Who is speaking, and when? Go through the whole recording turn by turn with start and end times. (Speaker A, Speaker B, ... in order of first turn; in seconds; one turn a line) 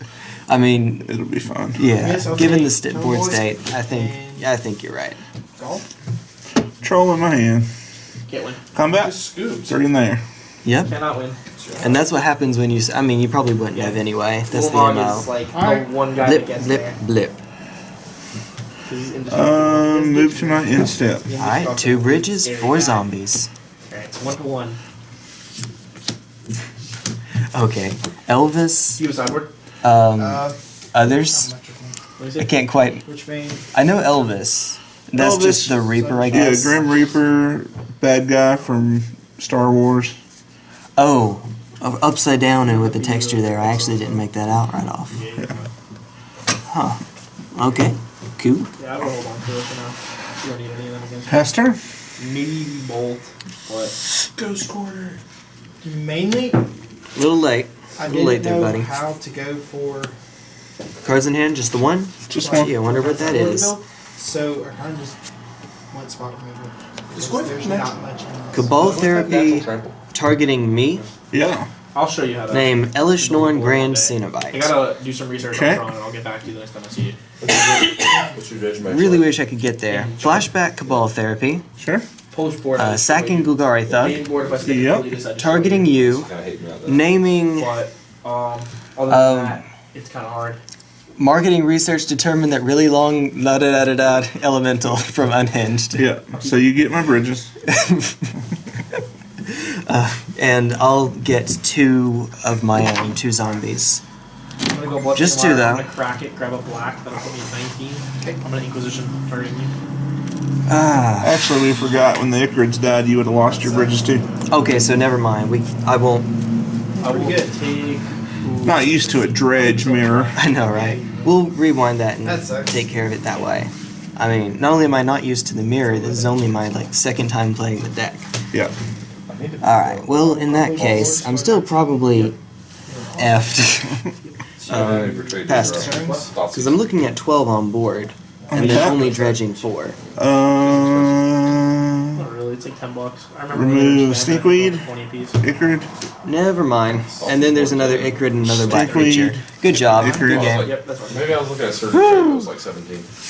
Speaker A: 0.5-1.1
Speaker B: 1.0-1.9
Speaker A: 1.8-5.2
Speaker C: 1.9-4.5
Speaker C: 5.6-5.8
Speaker B: 6.8-7.7
Speaker D: 8.3-8.6
Speaker B: 8.7-10.2
Speaker E: 8.8-9.8
Speaker A: 10.6-10.9
Speaker D: 10.9-11.4
Speaker E: 11.6-12.1
Speaker A: 11.8-15.3
Speaker D: 13.7-17.0
Speaker C: 15.5-15.9
Speaker A: 16.2-17.4
Speaker D: 18.9-20.8
Speaker B: 19.3-21.4
Speaker C: 21.3-22.3
Speaker A: 21.3-23.5
Speaker D: 22.4-23.1
Speaker D: 23.9-24.8
Speaker A: 27.5-29.0
Speaker D: 29.0-29.5
Speaker A: 29.8-31.5
Speaker C: 30.1-32.0
Speaker D: 32.2-32.5
Speaker A: 32.4-33.0
Speaker C: 33.0-34.0
Speaker A: 33.7-36.8
Speaker B: 35.1-40.1
Speaker C: 35.9-37.4
Speaker A: 41.0-45.2
Speaker D: 42.7-44.2
Speaker D: 45.1-45.7
Speaker A: 46.7-47.0
Speaker A: 47.5-48.7
Speaker D: 48.8-51.4
Speaker B: 51.3-51.8
Speaker D: 52.2-54.0
Speaker E: 54.6-55.1
Speaker C: 55.8-56.6
Speaker A: 57.1-59.0
Speaker C: 58.0-60.1
Speaker A: 61.0-63.8
Speaker B: 62.3-62.8
Speaker C: 62.4-65.2
Speaker C: 65.9-68.8
Speaker E: 67.1-68.0
Speaker A: 68.5-71.0
Speaker E: 68.6-70.0
Speaker B: 71.3-71.7
Speaker D: 71.9-77.2
Speaker A: 72.5-74.7
Speaker B: 75.5-75.9
Speaker E: 77.4-79.4
Speaker A: 78.9-81.6
Speaker D: 79.9-80.5
Speaker B: 81.8-82.0
Speaker D: 82.3-85.9
Speaker A: 82.8-84.2
Speaker E: 83.0-84.8
Speaker B: 84.6-85.2
Speaker A: 85.4-86.3
Speaker E: 85.9-87.2
Speaker A: 86.8-87.7
Speaker D: 87.5-90.6
Speaker A: 89.1-89.6
Speaker A: 91.2-96.1
Speaker B: 95.9-97.5
Speaker D: 96.3-96.8
Speaker A: 97.7-98.3
Speaker A: 99.5-104.0
Speaker D: 104.7-109.7
Speaker A: 105.1-105.9
Speaker A: 110.7-111.4
Speaker B: 111.2-114.2
Speaker C: 113.5-113.9
Speaker A: 114.5-116.3
Speaker C: 117.0-117.6
Speaker D: 117.0-120.4
Speaker B: 118.6-120.4
Speaker C: 120.1-121.4
Speaker A: 120.3-128.3
Speaker C: 122.2-123.0
Speaker C: 126.0-126.9
Speaker E: 129.3-130.3
Speaker A: 129.6-132.4
Speaker C: 130.2-132.4
Speaker C: 132.9-133.8
Speaker A: 133.2-134.0
Speaker E: 134.6-136.9
Speaker A: 134.7-140.0
Speaker C: 134.8-136.3
Speaker C: 138.5-138.8
Speaker B: 138.5-139.1
Speaker E: 138.6-139.5
Speaker B: 140.2-142.2
Speaker E: 140.2-141.4
Speaker D: 142.2-145.4
Speaker B: 143.5-144.9
Speaker B: 145.4-145.9
Speaker A: 146.2-150.7
Speaker E: 147.1-148.9
Speaker B: 148.7-150.6
Speaker C: 149.7-150.2
Speaker E: 150.2-153.1
Speaker D: 150.6-151.5
Speaker A: 151.9-152.5